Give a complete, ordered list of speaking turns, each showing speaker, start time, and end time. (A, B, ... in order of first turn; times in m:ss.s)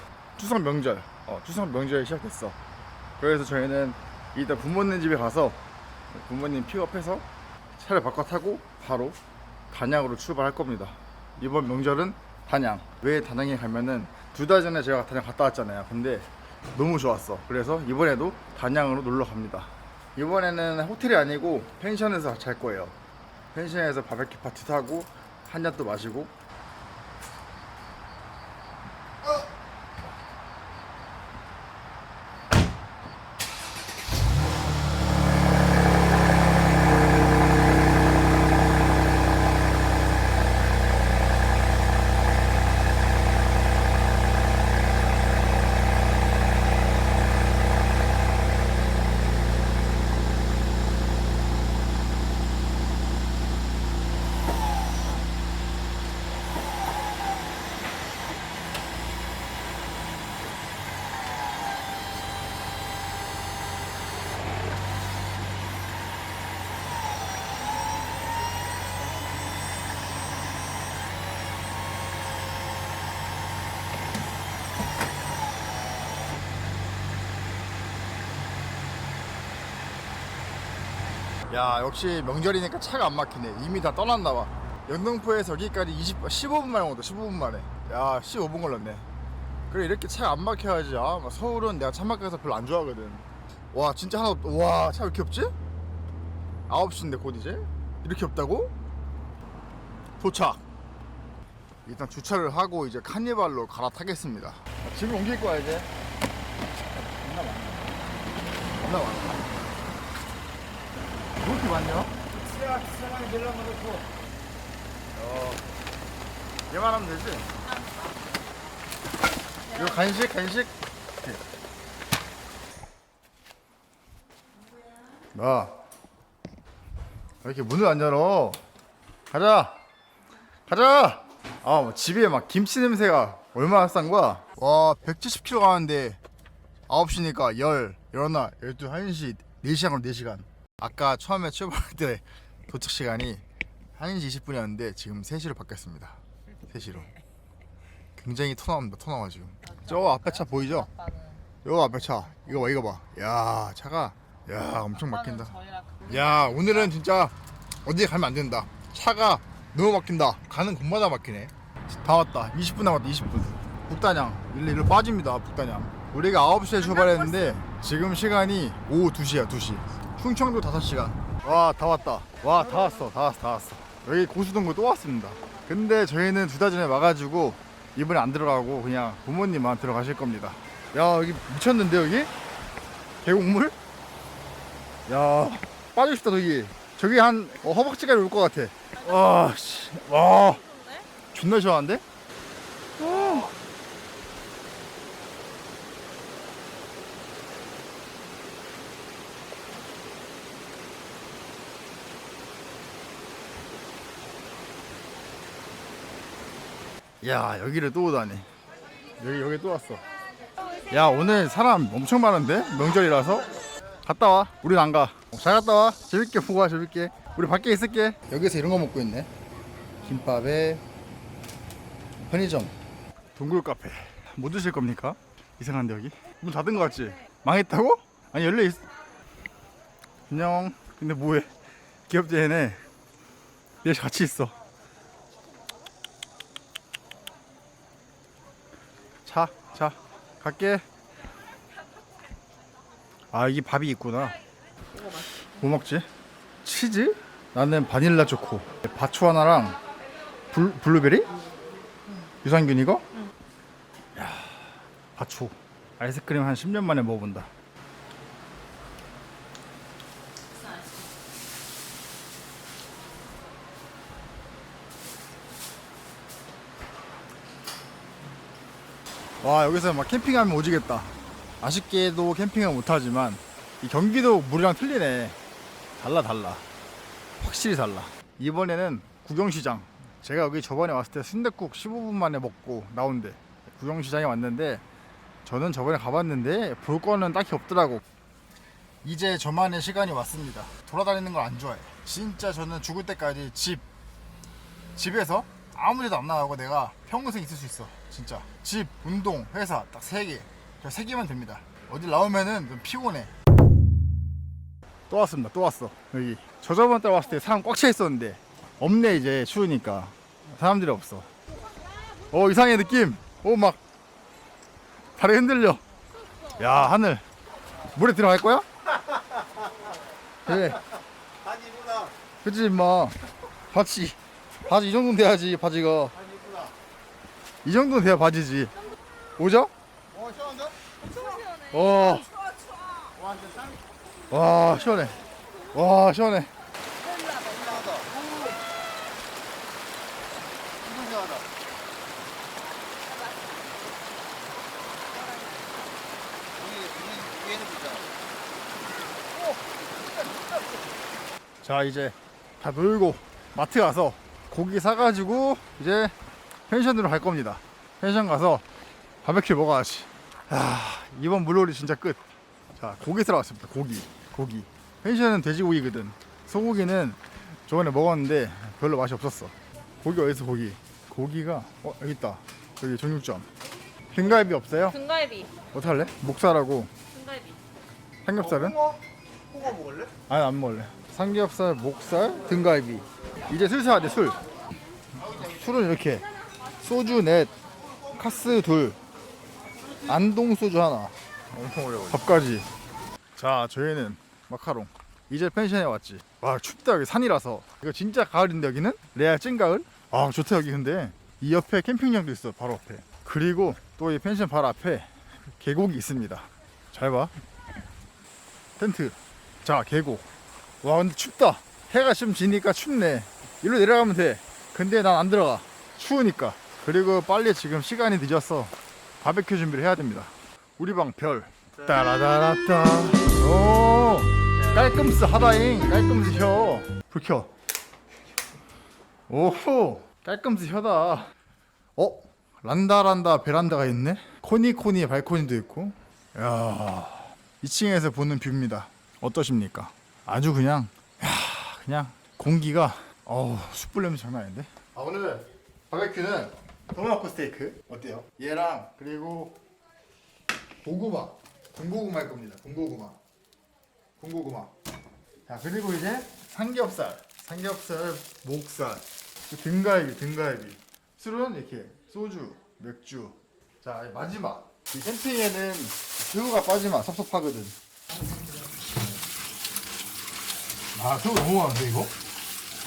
0:00.4-0:02.6 A
0:03.2-0:07.2 A
0:07.8-0:09.2 A
0:09.7-0:23.0 A
0:23.5-0:26.3 A
1:21.5-1:29.0 A
1:29.7-1:35.5 A
1:36.7-1:38.7 A
1:40.2-1:40.6 A
1:41.8-1:45.9 A
1:46.9-1:48.1 A
1:48.8-1:49.8 A
1:51.4-1:52.1 A
1:52.4-1:54.1 B
1:55.1-1:55.6 A
1:56.7-1:57.5 A
1:57.6-1:58.2 C
1:59.7-2:00.1 C
1:59.7-2:01.4 A
2:05.3-2:05.8 A
2:07.4-2:08.6 A
2:09.3-2:09.8 A
2:10.7-2:16.2 A
2:16.9-2:23.4 A
2:23.9-2:27.1 A
2:28.2-2:30.9 A
2:29.6-2:31.4 C
2:31.6-2:37.3 A
2:35.0-2:36.7 C
2:37.8-3:02.3 A
2:47.0-2:47.4 C
3:03.2-3:03.7 A
3:05.1-3:10.6 A
3:10.2-3:11.1 C
3:11.3-3:12.0 A
3:13.0-3:13.5 A
3:27.2-3:28.5 A
3:29.2-3:30.0 A
3:30.9-3:33.5 A
3:34.0-3:39.3 A
3:40.0-3:40.8 A
3:42.2-3:42.7 A
3:43.4-3:48.8 A
3:50.3-3:51.5 A
3:52.1-3:52.8 A
3:53.8-3:54.5 A
3:59.2-4:00.8 A
4:03.3-4:04.4 A
4:05.4-4:06.1 A
4:06.6-4:09.8 A
4:10.5-4:11.3 A
4:12.4-4:13.1 A
4:14.1-4:17.5 A
4:29.4-4:35.4 A
4:36.0-4:36.6 A
4:37.4-4:44.8 A
4:45.4-4:48.0 A
4:49.0-4:53.8 A
4:54.9-5:03.3 A
5:05.1-5:11.3 A
5:12.3-5:13.8 A
5:15.2-5:15.8 A
5:16.5-5:17.2 A
5:17.9-5:18.7 A
5:20.4-5:20.8 A
5:21.4-5:22.1 B
5:22.4-5:23.2 A
5:23.7-5:26.2 A
5:26.3-5:26.7 B
5:27.6-5:28.7 A
5:29.4-5:29.7 A
5:30.1-5:30.8 B
5:31.0-5:32.2 C
5:31.7-5:32.3 A
5:33.2-5:33.7 B
5:34.3-5:35.2 A
5:35.7-5:36.5 A
5:37.0-5:38.0 C
5:37.5-5:38.5 B
5:40.8-5:41.4 B
5:45.1-5:45.9 C
5:46.6-5:48.1 B
5:51.6-5:56.1 A
5:56.7-5:58.6 A
5:59.2-6:02.2 A
6:02.7-6:13.5 A
6:14.1-6:15.0 A
6:14.9-6:15.5 C
6:15.7-6:16.9 A
6:17.1-6:17.6 C
6:18.2-6:18.8 A
6:18.4-6:20.1 B
6:20.3-6:24.4 A
6:25.3-6:26.3 A
6:26.8-6:27.5 A
6:28.1-6:29.0 A
6:30.0-6:32.7 A
6:33.4-6:47.3 A
6:48.8-6:50.3 A
6:50.8-7:07.5 A
7:09.3-7:11.3 A
7:12.0-7:29.6 A
7:30.8-7:33.2 A
7:34.2-7:34.7 A
7:35.5-7:47.8 A
7:50.9-7:52.1 A